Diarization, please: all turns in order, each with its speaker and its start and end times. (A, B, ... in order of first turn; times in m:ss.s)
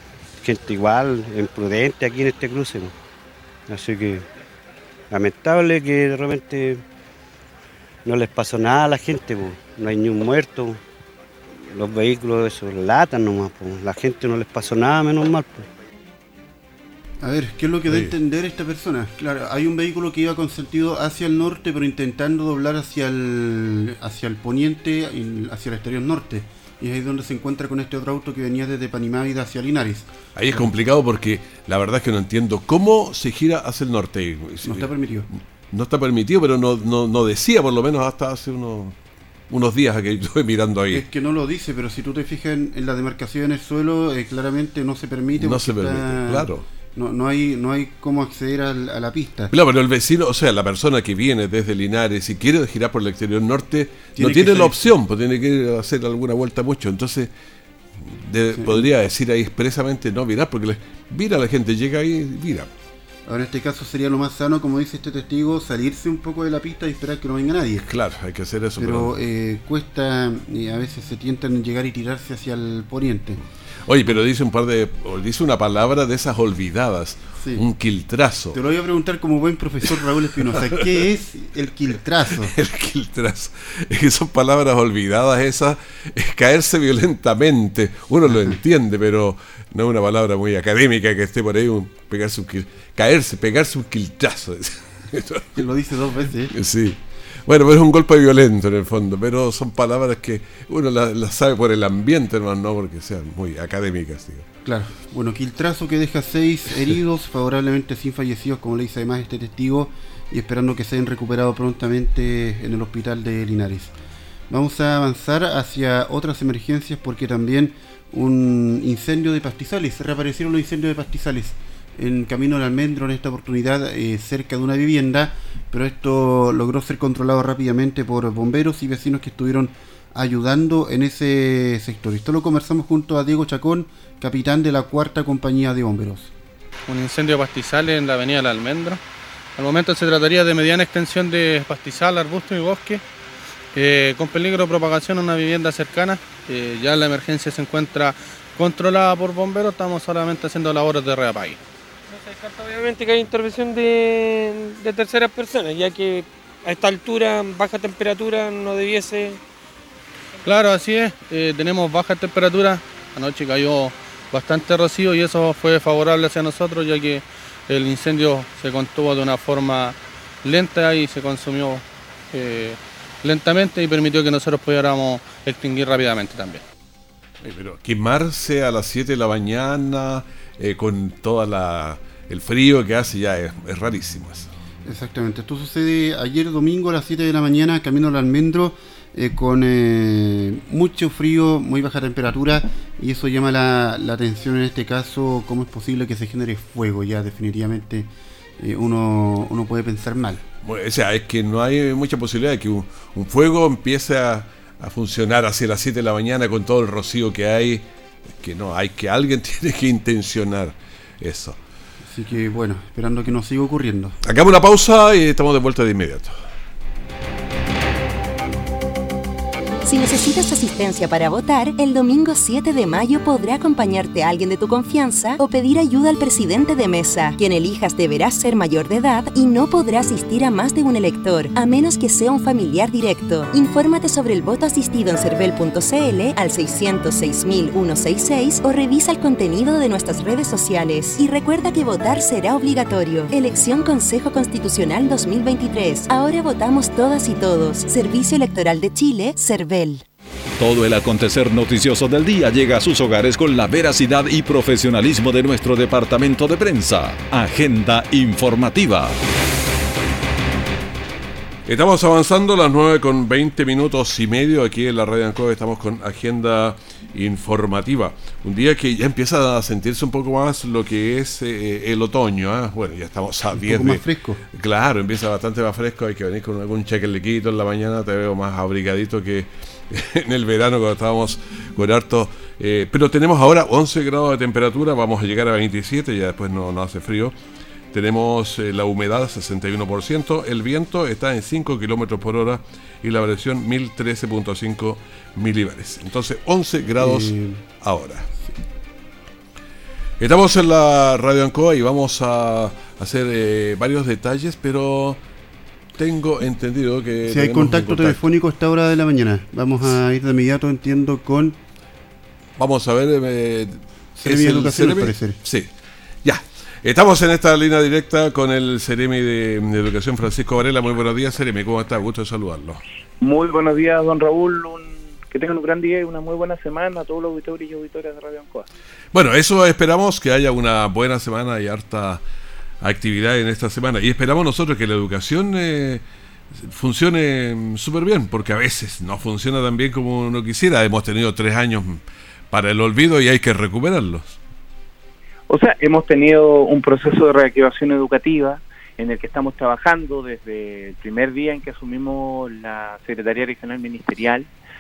0:00.4-0:02.9 A
0:03.7-0:04.3 A
0:05.1-0:06.8 A
0:08.0-0:10.8 A
0:11.5-0:15.7 A
0:17.2-0:30.1 B
0:17.9-0:18.1 C
0:30.4-0:34.9 C
0:34.6-0:35.3 B
0:35.7-0:39.0 C
0:39.5-0:41.0 C
0:40.9-0:49.5 B
0:45.4-0:46.6 C
0:49.5-0:57.3 C
0:54.2-0:54.9 B
0:58.0-1:02.7 C
0:58.6-0:58.9 B
1:03.3-1:07.9 B
1:07.8-1:09.2 C
1:08.8-1:13.4 B
1:13.9-1:18.6 C
1:17.4-1:17.6 B
1:18.5-1:22.5 B
1:22.4-1:35.6 C
1:28.3-1:28.6 B
1:35.6-1:36.5 B
1:36.5-1:44.5 C
1:44.6-1:53.9 B
1:54.5-2:16.3 B
2:16.9-2:19.0 D
2:19.6-2:23.0 D
2:23.7-2:31.6 D
2:32.1-2:39.4 E
2:40.4-2:56.6 D
2:57.4-3:04.5 C
3:04.8-3:20.4 B
3:20.6-3:27.8 C
3:28.4-3:31.6 C
3:32.0-3:34.2 B
3:34.2-3:36.3 C
3:39.8-4:10.0 F
4:10.6-4:19.2 G
4:21.7-4:47.3 C
4:33.6-4:34.4 B
4:47.9-4:58.3 C
4:57.0-4:57.6 B
5:00.2-5:05.2 C
5:06.0-5:08.2 C
5:07.3-5:11.6 B
5:12.6-5:15.7 C
5:14.2-5:15.4 B
5:16.2-5:22.8 C
5:23.2-5:28.7 H
5:29.1-5:32.2 C
5:32.8-5:36.0 C
5:36.6-5:44.4 C
5:45.5-5:54.5 H